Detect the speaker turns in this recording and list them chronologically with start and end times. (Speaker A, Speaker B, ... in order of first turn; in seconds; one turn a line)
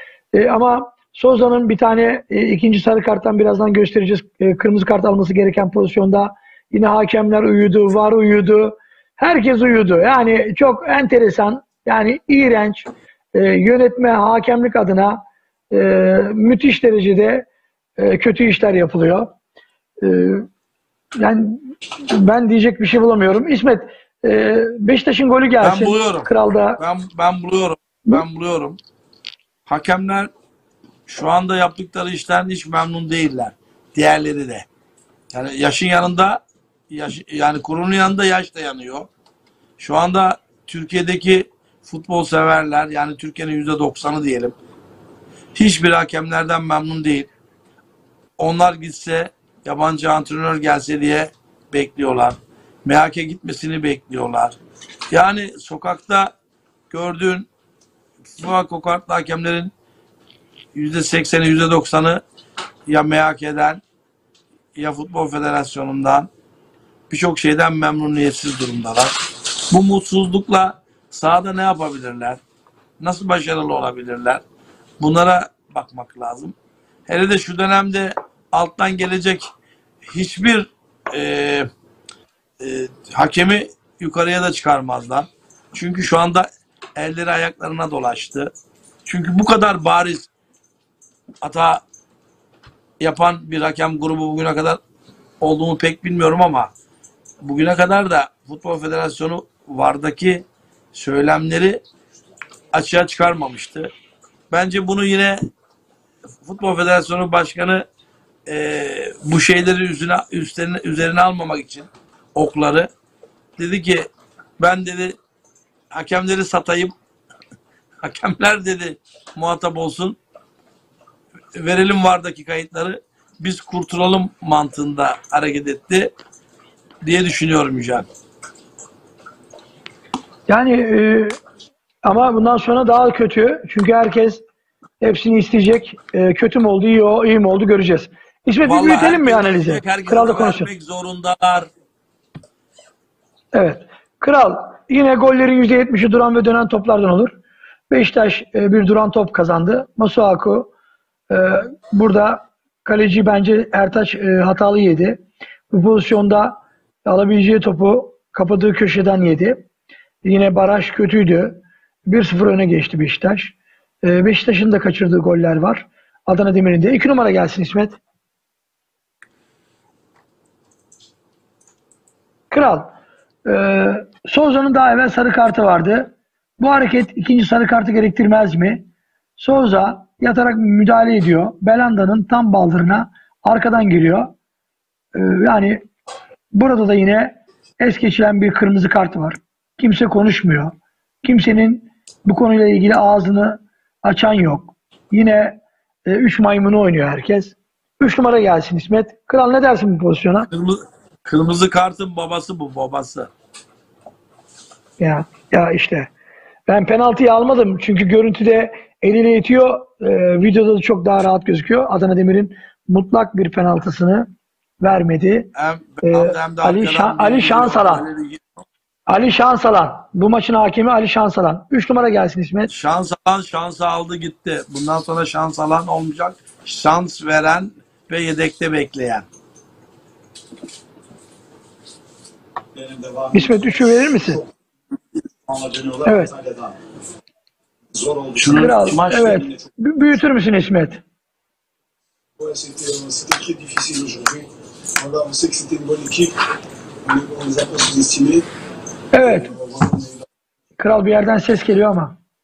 Speaker A: 0.3-15.2
Speaker A: 15.7-17.5
Speaker A: 18.0-19.3
Speaker A: 20.0-20.5
Speaker A: 21.2-26.8
Speaker B: 25.6-28.8
Speaker B: 29.7-30.3
Speaker B: 31.1-34.7
Speaker B: 35.3-39.1
Speaker B: 39.8-44.5
Speaker B: 45.6-47.3
Speaker B: 48.4-54.6
Speaker B: 55.1-56.3
Speaker B: 56.9-57.5
Speaker B: 58.4-59.7
Speaker B: 60.7-62.2
Speaker B: 62.9-63.8
Speaker B: 64.8-66.3
Speaker B: 67.1-69.1
Speaker B: 69.7-72.4
Speaker B: 73.0-74.4
Speaker B: 75.0-76.5
Speaker B: 77.1-79.5
Speaker B: 80.1-81.7
Speaker B: 82.6-88.5
Speaker B: 89.1-90.3
Speaker B: 91.4-91.8
Speaker B: 93.0-94.8
Speaker B: 95.4-96.7
Speaker B: 97.4-101.8
Speaker B: 102.7-103.9
Speaker B: 104.5-105.4
Speaker B: 106.5-107.8
Speaker B: 108.5-112.9
Speaker B: 113.6-114.1
Speaker B: 114.6-115.2
Speaker B: 115.9-116.9
Speaker B: 118.0-120.2
Speaker B: 121.6-126.1
Speaker B: 127.0-128.1
Speaker A: 130.5-131.4
Speaker A: 132.0-134.4
Speaker A: 135.0-140.7
Speaker B: 138.6-141.7
Speaker A: 143.5-147.4
Speaker A: 147.9-150.7
Speaker A: 151.3-159.7
Speaker A: 160.2-168.0
Speaker A: 172.5-172.9
Speaker A: 173.5-178.9
Speaker A: 179.4-184.3
Speaker A: 185.2-185.8
Speaker A: 186.5-200.5
Speaker B: 200.5-203.3
Speaker A: 205.0-206.1
Speaker A: 206.7-214.3
Speaker A: 214.8-215.5
Speaker B: 215.6-218.4
Speaker A: 216.0-218.1
Speaker A: 219.1-222.7
Speaker B: 222.7-229.3
Speaker C: 232.8-233.2
Speaker A: 233.3-234.4
Speaker C: 235.6-236.6
Speaker A: 236.1-236.3
Speaker C: 237.9-238.5
Speaker B: 238.4-239.3
Speaker A: 238.5-241.0
Speaker C: 242.4-244.5
Speaker C: 245.0-246.3
Speaker C: 247.1-248.4
Speaker A: 249.1-249.5
Speaker C: 249.6-250.2
Speaker A: 250.8-252.2